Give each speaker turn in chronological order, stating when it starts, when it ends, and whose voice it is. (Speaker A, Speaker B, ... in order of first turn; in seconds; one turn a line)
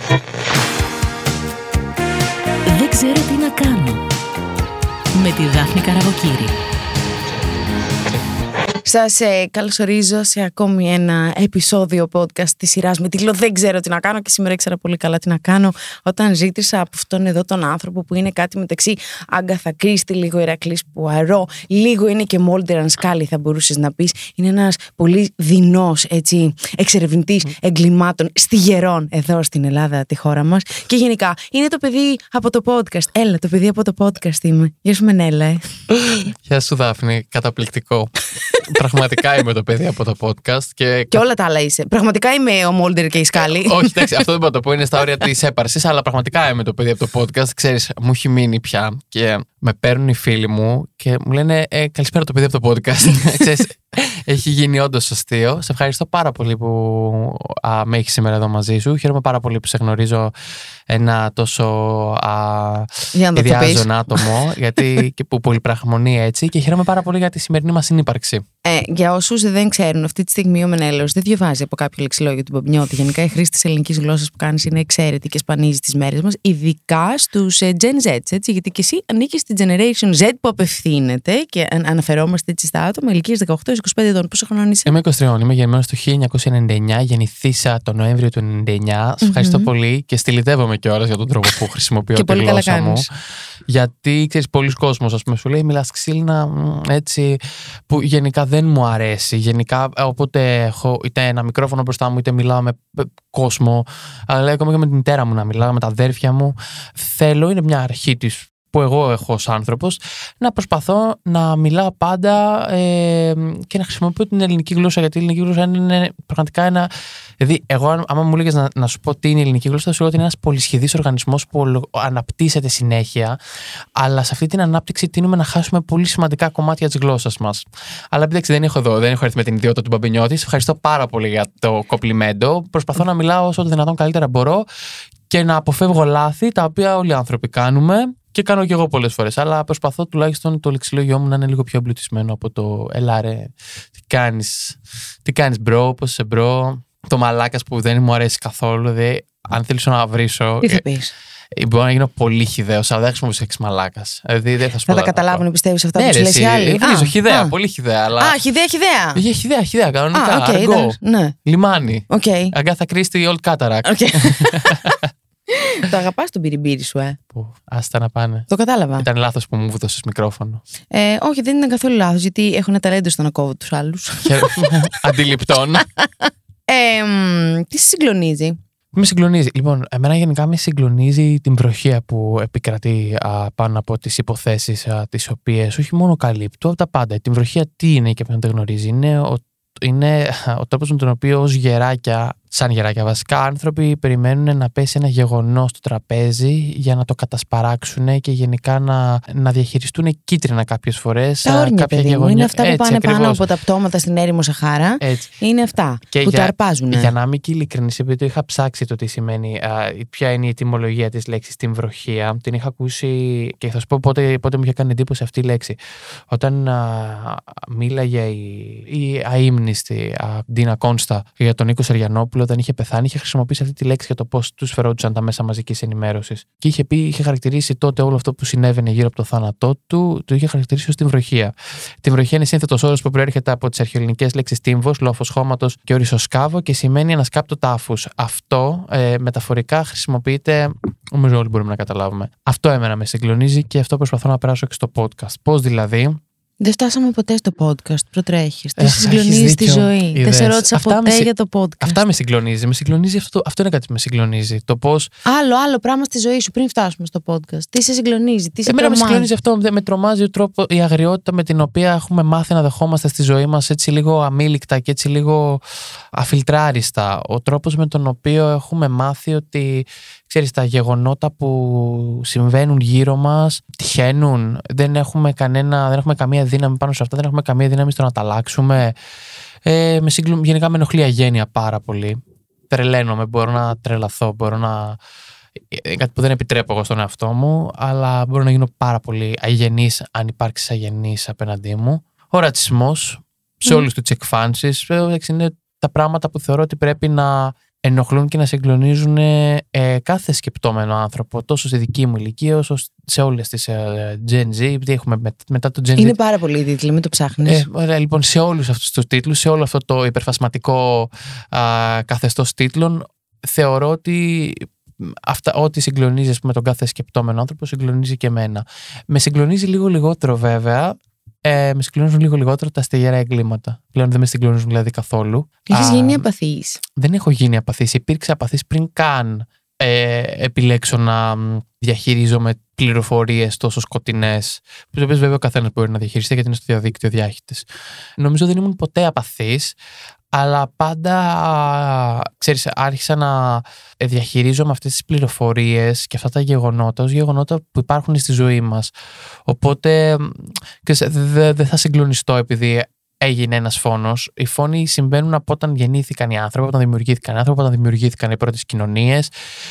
Speaker A: 2.7-4.0
Speaker A: 5.1-6.5
Speaker B: 8.8-35.8
Speaker C: 36.4-41.2
Speaker B: 41.1-44.1
Speaker C: 43.4-60.3
Speaker C: 60.9-68.5
Speaker B: 63.1-64.3
Speaker B: 68.7-84.9
Speaker C: 84.9-93.1
Speaker B: 89.2-89.7
Speaker B: 92.2-93.1
Speaker C: 93.7-123.4
Speaker C: 124.0-134.7
Speaker C: 135.3-150.8
Speaker B: 150.6-151.1
Speaker C: 151.5-155.4
Speaker B: 154.9-157.5
Speaker C: 155.9-158.4
Speaker B: 158.2-159.2
Speaker C: 159.2-165.1
Speaker B: 160.1-161.3
Speaker B: 162.1-162.6
Speaker B: 163.8-164.8
Speaker B: 165.5-167.2
Speaker C: 167.3-170.6
Speaker B: 168.5-169.1
Speaker B: 170.9-175.1
Speaker C: 174.2-175.9
Speaker B: 175.8-178.6
Speaker C: 178.9-203.4
Speaker B: 201.4-207.1
Speaker C: 205.0-205.3
Speaker C: 206.1-215.8
Speaker C: 216.3-246.2
Speaker B: 246.6-252.0
Speaker C: 248.8-251.3
Speaker C: 251.8-255.1
Speaker B: 255.2-259.3
Speaker C: 258.7-265.6
Speaker C: 266.1-279.0
Speaker C: 279.6-282.2
Speaker C: 282.7-285.0
Speaker C: 285.7-306.2
Speaker B: 306.0-307.7
Speaker C: 307.4-326.2
Speaker B: 325.7-326.8
Speaker C: 327.0-339.8
Speaker C: 340.3-348.9
Speaker C: 349.5-359.3